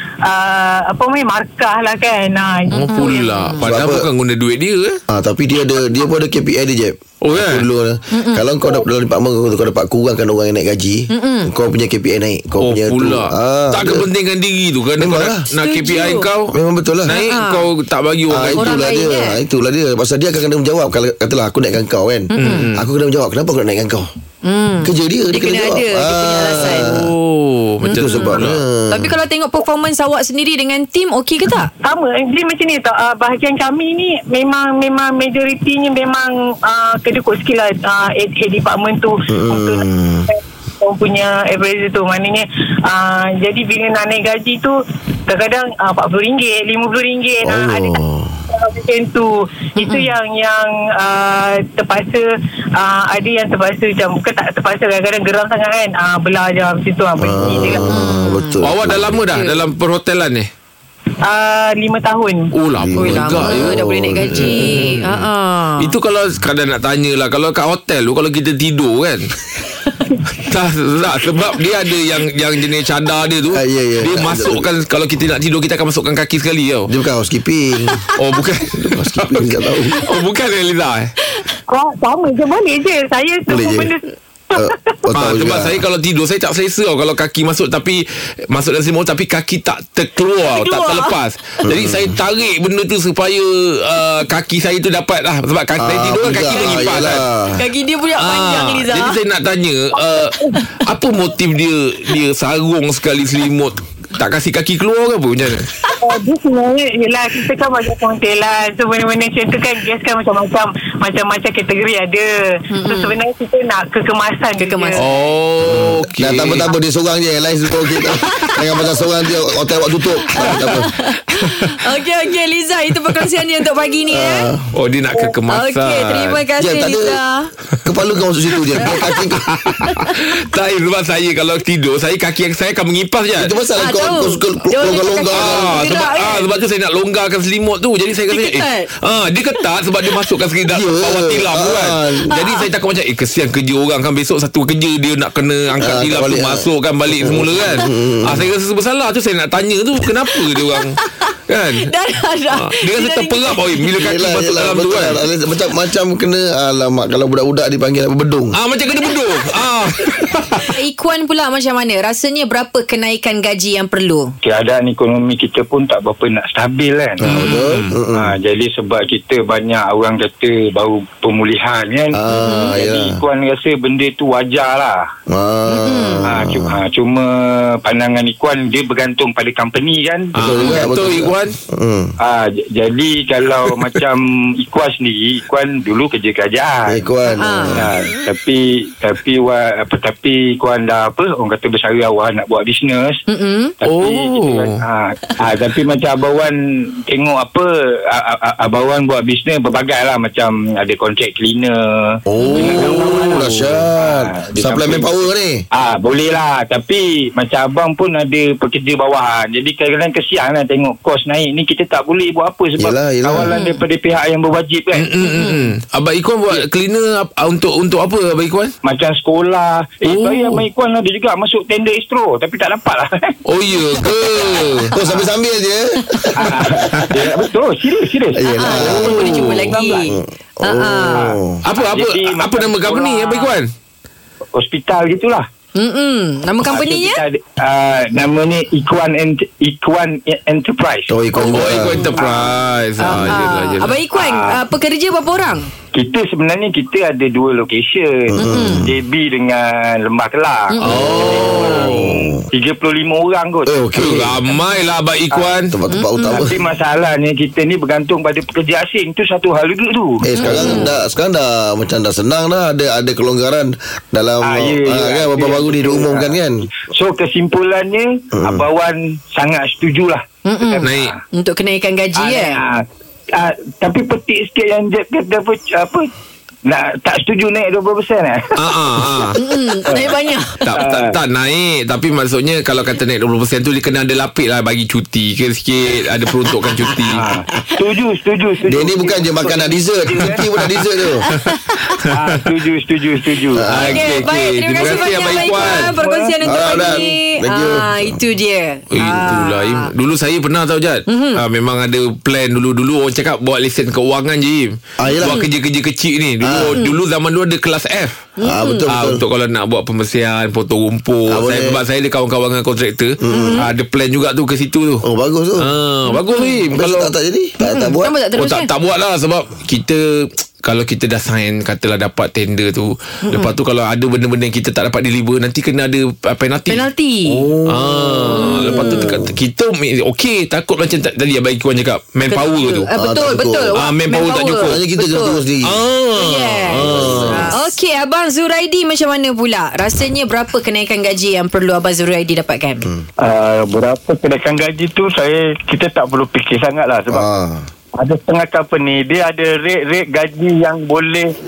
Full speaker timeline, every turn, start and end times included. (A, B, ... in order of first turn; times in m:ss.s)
0:00.2-0:03.2 A
0:02.7-0:05.0 B
0:02.9-0:03.6 C
0:03.6-0:04.1 D
0:05.1-0:14.1 D
0:07.2-0:07.7 B
0:08.1-0:08.5 C
0:11.1-0:11.5 C
0:12.6-0:18.7 B
0:15.0-0:15.4 D
0:15.6-0:16.3 C
0:16.5-0:17.1 D
0:17.1-0:17.7 C
0:18.3-0:24.1 D
0:18.6-0:19.4 C
0:22.3-0:22.7 C
0:22.4-0:22.9 B
0:24.4-0:27.0 C
0:24.8-0:27.1 D
0:26.6-0:28.6 B
0:27.8-0:28.4 C
0:27.9-0:29.2 D
0:28.9-0:31.7 C
0:31.8-0:44.8 A
0:39.3-0:40.3 D
0:45.3-0:48.0 A
0:47.4-0:48.4 D
0:48.5-0:52.2 A
0:49.8-0:50.1 C
0:52.8-0:57.9 A
0:57.2-0:59.2 D
0:57.8-0:58.6 C
0:58.6-1:00.5 B
0:59.2-0:59.6 C
1:01.2-1:02.5 A
1:02.5-1:03.8 B
1:02.8-1:05.1 D
1:03.0-1:06.0 C
1:05.8-1:09.3 B
1:10.4-1:16.9 B
1:13.5-1:14.7 D
1:16.9-1:18.0 D
1:18.2-1:21.1 B
1:18.8-1:20.0 D
1:21.7-1:24.8 A
1:23.5-1:23.9 D
1:24.6-1:25.8 D
1:25.1-1:37.2 B
1:30.5-1:31.2 C
1:31.6-1:32.2 D
1:35.8-1:37.6 D
1:37.6-1:39.2 C
1:38.2-1:45.7 B
1:46.0-1:55.1 A
1:52.7-1:53.2 C
1:54.6-1:55.0 C
1:55.0-1:56.7 B
1:55.6-2:00.9 D
1:58.2-1:58.7 C
2:00.2-2:04.5 C
2:04.1-2:04.7 D
2:04.7-2:06.4 B
2:05.5-2:07.5 C
2:06.6-2:07.2 D
2:07.8-2:09.5 D
2:08.8-2:13.5 B
2:09.9-2:10.2 C
2:13.4-2:15.8 D
2:13.8-2:16.5 C
2:15.3-2:31.9 B
2:18.3-2:18.9 C
2:20.7-2:22.3 D
2:22.3-2:22.7 C
2:25.8-2:28.5 D
2:30.4-2:31.3 C
2:31.8-2:33.8 C
2:32.5-2:35.2 B
2:34.0-2:38.6 D
2:38.5-2:40.8 B
2:40.6-2:44.3 C
2:44.4-2:47.3 E
2:47.2-2:48.3 D
2:47.3-2:48.0 B
2:48.1-2:55.1 E
2:52.1-2:53.2 D
2:52.3-2:52.7 C
2:55.3-2:56.8 D
2:55.7-2:56.2 C
2:56.3-3:00.4 E
3:00.4-3:01.6 B
3:00.4-3:02.1 D
3:02.2-3:07.1 E
3:06.9-3:07.9 D
3:07.3-3:07.9 C
3:07.6-3:13.2 E
3:13.3-3:13.7 C
3:13.8-3:25.2 E
3:13.8-3:14.8 B
3:22.3-3:25.6 D
3:22.4-3:23.0 C
3:23.3-3:23.8 B
3:25.7-3:35.1 E
3:32.8-3:33.5 D
3:33.5-3:33.8 C
3:35.0-3:38.8 B
3:35.2-3:35.7 C
3:38.8-3:43.4 E
3:40.1-3:40.6 B
3:43.5-3:44.9 B
3:44.9-3:47.1 D
3:46.4-3:50.2 E
3:48.3-3:51.6 D
3:48.5-3:51.4 C
3:49.1-3:49.7 B
3:51.6-3:53.7 B
3:51.8-3:53.5 E
3:54.6-3:55.5 E
3:55.8-3:57.2 C
3:56.6-4:02.6 E
4:01.1-4:02.2 D
4:01.4-4:04.0 B
4:03.0-4:05.7 C
4:03.1-4:03.4 D
4:04.1-4:04.6 E
4:05.9-4:13.7 E
4:08.3-4:09.0 D
4:08.4-4:08.9 C
4:10.8-4:12.1 B
4:10.9-4:12.5 D
4:13.7-4:14.4 D
4:14.0-4:15.8 B
4:15.7-4:16.6 D
4:15.9-4:16.5 C
4:16.3-4:20.8 E
4:20.2-4:26.7 D
4:20.4-4:20.9 C
4:24.4-4:31.2 E
4:28.3-4:28.6 D
4:30.5-4:32.6 C
4:30.8-4:31.1 B
4:32.2-4:36.1 E
4:36.7-4:39.4 E
4:38.6-4:39.4 B
4:39.4-4:40.7 C
4:39.9-4:40.2 E
4:40.6-4:47.2 B
4:40.7-4:41.2 E
4:47.1-4:50.5 E
4:48.7-4:51.2 D
4:51.3-4:52.0 C
4:52.1-4:53.7 E
4:53.5-4:54.1 D
4:53.7-4:55.9 B
4:53.7-4:59.9 C
4:55.4-4:57.1 E
4:56.4-4:58.2 D
4:58.9-5:08.3 B
5:01.1-5:01.4 C
5:05.0-5:05.4 D
5:06.4-5:06.8 D
5:08.4-5:08.9 C
5:08.4-5:09.2 D
5:08.9-5:15.0 B
5:11.3-5:11.8 D
5:13.2-5:13.6 D
5:13.3-5:13.7 C
5:15.0-5:15.7 D
5:15.6-5:17.1 B
5:16.1-5:16.6 C
5:16.7-5:18.1 D
5:17.6-5:18.7 C
5:18.4-5:26.8 B
5:23.3-5:23.5 C
5:26.7-5:27.5 C
5:27.3-5:29.4 D
5:27.7-5:32.9 B
5:28.4-5:29.1 C
5:32.3-5:35.4 C
5:33.0-5:33.8 D
5:33.8-5:34.8 B
5:34.6-5:35.8 D
5:35.6-5:37.6 B
5:36.2-5:42.9 C
5:36.7-5:37.5 D
5:43.2-5:47.2 E
5:47.1-5:47.7 D
5:48.0-5:51.3 E